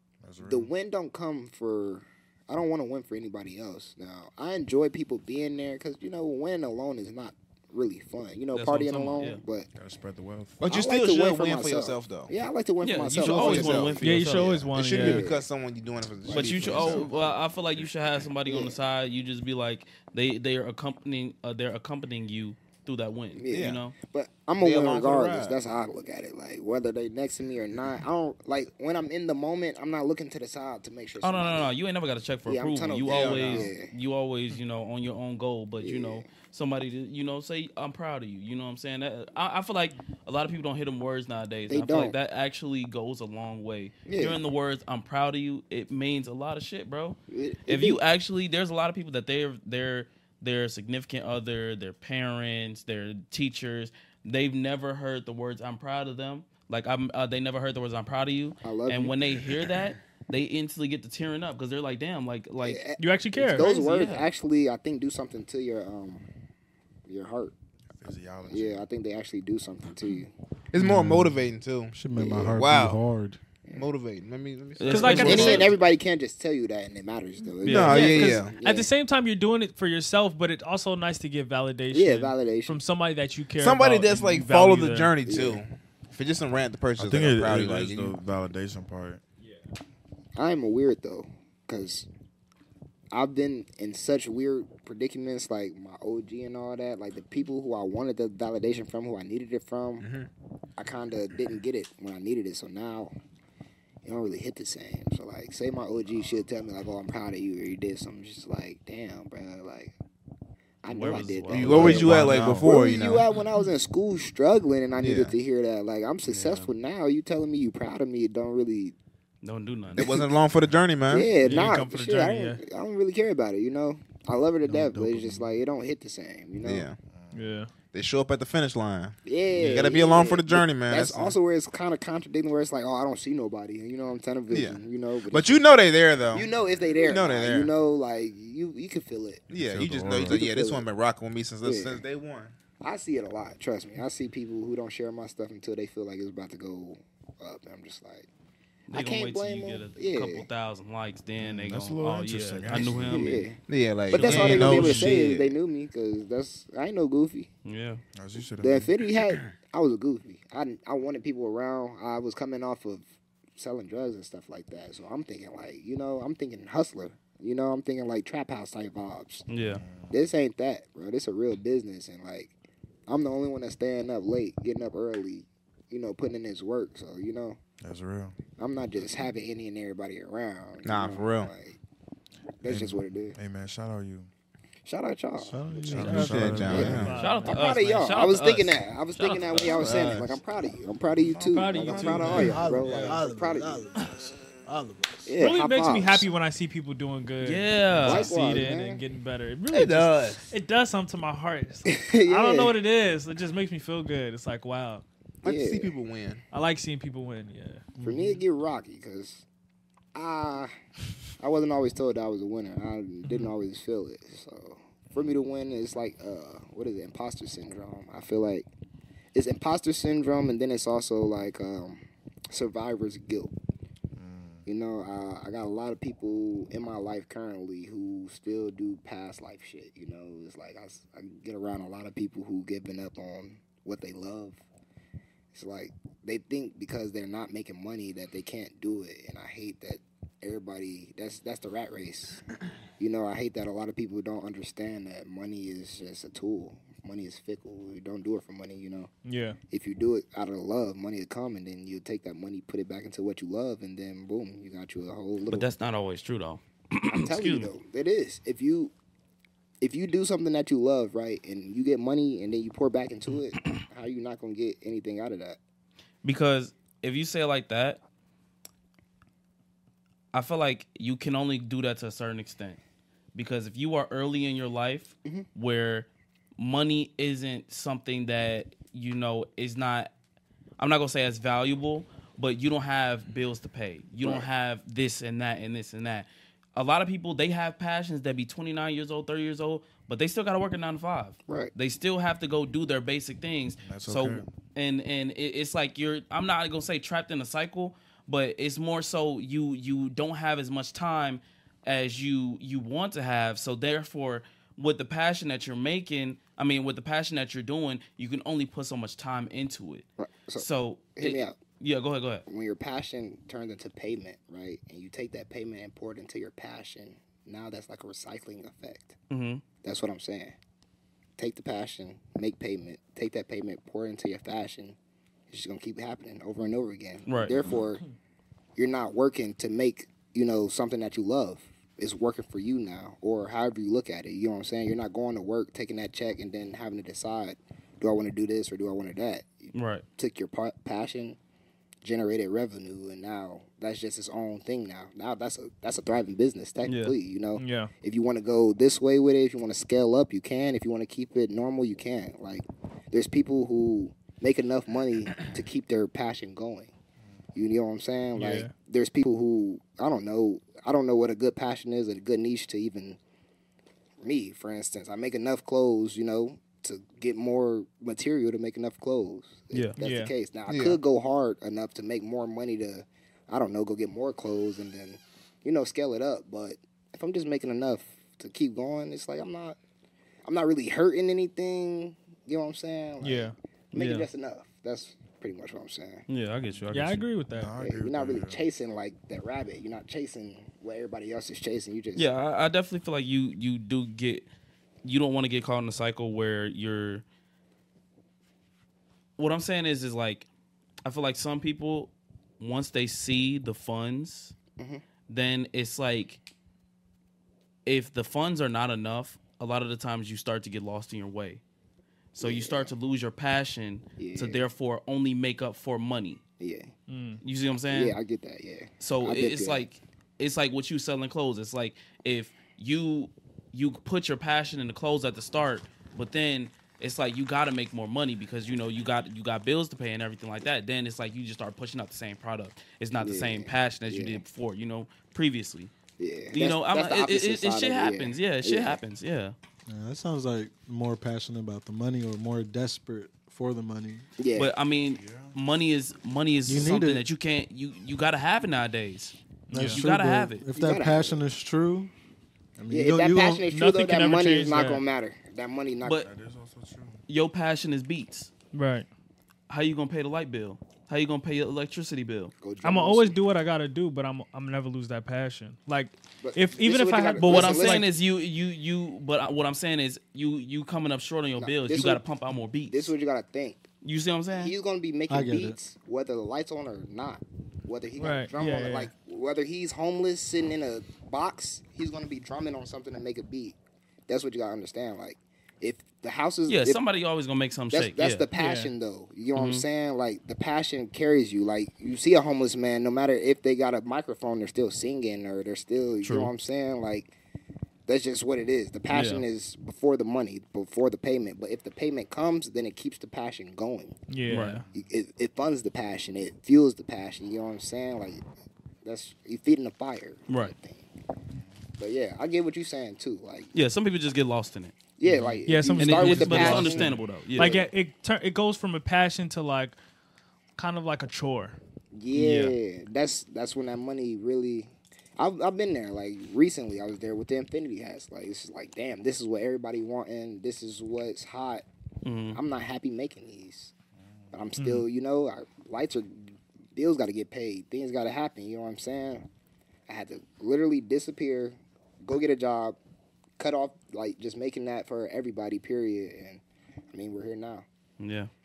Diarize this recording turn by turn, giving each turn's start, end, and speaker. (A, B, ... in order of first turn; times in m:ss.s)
0:00.2-0:00.7 A
0:00.4-0:09.7 B
0:08.5-0:09.4 C
0:09.7-0:10.6 A
0:10.6-0:12.3 D
0:10.7-0:14.0 B
0:12.8-0:14.5 C
0:13.1-0:17.1 D
0:14.0-0:15.2 E
0:14.9-0:15.5 B
0:16.2-0:17.0 B
0:16.3-0:24.0 C
0:16.6-0:17.1 A
0:18.4-0:18.8 B
0:23.4-0:31.7 B
0:23.5-0:23.8 D
0:24.6-0:25.6 D
0:31.2-1:02.8 C
0:32.4-0:33.9 B
0:33.0-0:33.7 D
0:35.8-0:36.3 B
0:41.7-0:42.2 B
0:44.0-0:44.4 B
0:47.3-0:48.0 B
0:58.6-0:59.2 B
1:02.6-1:06.2 B
1:03.0-1:03.7 E
1:03.5-1:04.3 C
1:07.1-1:07.5 B
1:08.0-1:08.8 A
1:08.5-1:10.3 B
1:10.7-1:13.0 D
1:10.8-1:11.3 F
1:11.9-1:13.4 F
1:12.2-1:12.6 B
1:13.7-1:15.7 D
1:14.8-1:15.7 C
1:14.9-1:15.7 E
1:15.0-1:18.9 B
1:17.6-1:17.9 C
1:17.6-1:18.6 D
1:17.7-1:25.1 E
1:21.9-1:22.8 B
1:23.6-1:28.2 D
1:25.2-1:25.6 B
1:27.0-1:29.2 A
1:30.4-1:32.1 B
1:33.1-1:40.0 B
1:40.0-1:40.3 D
1:40.8-1:43.1 B
1:44.0-1:49.9 B
1:50.8-1:58.9 B
1:50.9-1:52.1 C
1:51.5-1:53.2 D
1:51.7-1:52.7 A
1:55.0-1:55.4 D
1:56.2-1:56.7 C
1:59.4-2:00.1 C
2:00.0-2:01.4 D
2:00.0-2:00.3 B
2:01.1-2:06.9 B
2:01.4-2:02.6 E
2:04.7-2:05.5 A
2:06.6-2:07.0 D
2:07.1-2:07.5 A
2:07.3-2:07.7 E
2:07.9-2:11.4 D
2:09.2-2:15.6 B
2:14.5-2:16.5 D
2:16.3-2:19.5 B
2:17.0-2:17.7 D
2:19.5-2:22.5 D
2:19.6-2:20.4 A
2:20.2-2:20.9 B
2:21.6-2:22.0 B
2:22.8-2:28.3 B
2:28.9-2:33.4 C
2:28.9-2:30.5 B
2:31.4-2:33.4 A
2:32.8-2:37.5 B
2:33.7-2:35.5 D
2:34.1-2:35.1 A
2:34.2-2:34.7 C
2:37.6-2:38.0 C
2:38.1-2:38.9 A
2:38.6-2:49.4 B
2:49.5-2:49.8 C
2:49.6-2:50.2 A
2:50.1-2:52.5 B
2:53.1-2:57.6 B
2:57.8-2:58.4 A
2:58.6-3:01.8 B
3:00.8-3:01.5 D
3:02.6-3:03.4 B
3:02.6-3:04.3 A
3:04.8-3:13.8 B
3:05.4-3:06.9 F
3:05.7-3:07.2 A
3:06.2-3:07.1 D
3:06.9-3:07.6 E
3:07.1-3:10.1 C
3:09.7-3:10.4 D
3:11.4-3:12.6 E
3:11.9-3:12.3 A
3:12.2-3:15.3 F
3:15.2-3:16.3 B
3:15.4-3:25.0 E
3:17.4-3:18.3 C
3:18.0-3:19.0 B
3:19.7-3:20.4 D
3:21.9-3:22.7 B
3:25.4-3:25.9 B
3:25.4-3:26.4 D
3:26.5-3:27.8 E
3:27.9-3:28.4 F
3:28.0-3:29.4 B
3:30.1-3:30.7 B
3:31.4-3:38.7 B
3:39.3-3:43.5 B
3:44.2-3:44.6 A
3:44.6-3:54.6 B
3:55.5-4:02.4 B
4:03.0-4:09.1 B
4:09.2-4:09.6 E
4:09.7-4:15.7 B
4:15.5-4:17.7 C
4:17.1-4:18.9 B
4:19.8-4:25.6 B
4:26.2-4:28.0 C
4:30.3-4:32.8 C
4:33.3-4:40.1 C
4:40.8-5:10.0 C
4:44.2-4:44.5 B
4:51.5-4:51.7 B
4:53.8-4:54.5 A
5:10.2-5:11.6 B
5:10.6-5:12.4 C
5:12.5-5:19.1 B
5:19.3-5:19.6 C
5:19.8-5:20.5 B
5:21.4-5:25.0 B
5:25.5-5:28.0 B
5:27.2-5:27.6 C
5:28.8-5:41.4 B
5:39.7-5:40.0 C
5:42.0-5:56.9 B
5:46.8-5:47.1 C
5:47.6-5:47.9 E
5:57.5-6:03.2 B
5:58.4-5:58.7 E
6:04.2-6:19.8 B
6:10.0-6:10.3 E
6:10.7-6:11.0 D
6:20.4-6:26.2 B
6:23.2-6:24.3 E
6:26.3-6:27.2 C
6:26.9-6:27.7 E
6:27.5-6:28.6 A
6:27.8-6:32.3 B
6:32.1-6:34.5 C
6:35.0-6:37.2 C
6:39.4-6:40.5 C
6:41.0-6:44.6 C
6:45.3-6:46.4 C
6:47.8-6:51.6 C
6:52.3-6:56.4 C
6:52.4-6:52.9 B
6:54.2-6:54.6 B
6:56.6-6:56.9 B
6:57.1-6:57.4 E
6:57.4-6:58.2 C
6:57.9-6:59.8 B
6:59.0-7:15.9 C
7:13.2-7:14.4 B
7:16.2-7:19.0 B
7:16.5-7:19.5 C
7:19.9-7:24.2 F
7:24.4-7:24.7 B
7:24.5-7:30.6 C
7:25.2-7:25.6 A
7:26.7-7:27.2 F
7:29.7-7:30.0 E
7:29.7-7:32.1 F
7:30.7-7:31.4 B
7:32.8-7:33.6 F
7:32.9-7:36.2 B
7:33.7-7:35.0 E
7:36.0-7:36.3 C
7:36.2-7:37.2 A
7:37.3-7:38.5 C
7:38.7-7:39.1 E
7:39.7-7:42.5 C
7:42.6-7:43.4 B
7:42.8-7:48.1 E
7:46.4-7:48.0 B
7:47.4-7:53.1 C
7:51.6-7:52.2 B
7:52.9-7:53.8 B
7:54.0-7:54.7 C
7:54.5-8:03.8 B
7:55.3-7:55.8 F
7:58.2-7:59.1 E
8:04.3-8:07.0 B
8:06.7-8:08.4 C
8:07.9-8:17.3 B
8:08.6-8:08.9 E
8:09.5-8:09.8 C
8:16.2-8:16.5 C
8:18.1-8:24.2 B
8:19.1-8:19.4 E
8:24.3-8:24.8 E
8:24.5-8:24.8 C
8:24.9-8:28.4 B
8:29.0-8:31.1 B
8:30.5-8:30.7 C
8:31.6-8:31.8 A
8:32.0-8:33.7 B
8:33.7-8:35.0 C
8:35.2-8:37.9 B
8:35.7-8:40.0 E
8:36.0-8:37.8 C
8:40.8-8:41.8 E
8:42.1-8:51.8 B
8:42.3-8:42.8 C
8:52.2-8:52.6 C
8:52.5-8:53.9 B
8:54.5-8:59.5 B
8:54.8-8:55.0 E
9:00.1-9:03.0 B
9:03.6-9:07.8 B
9:08.2-9:08.5 C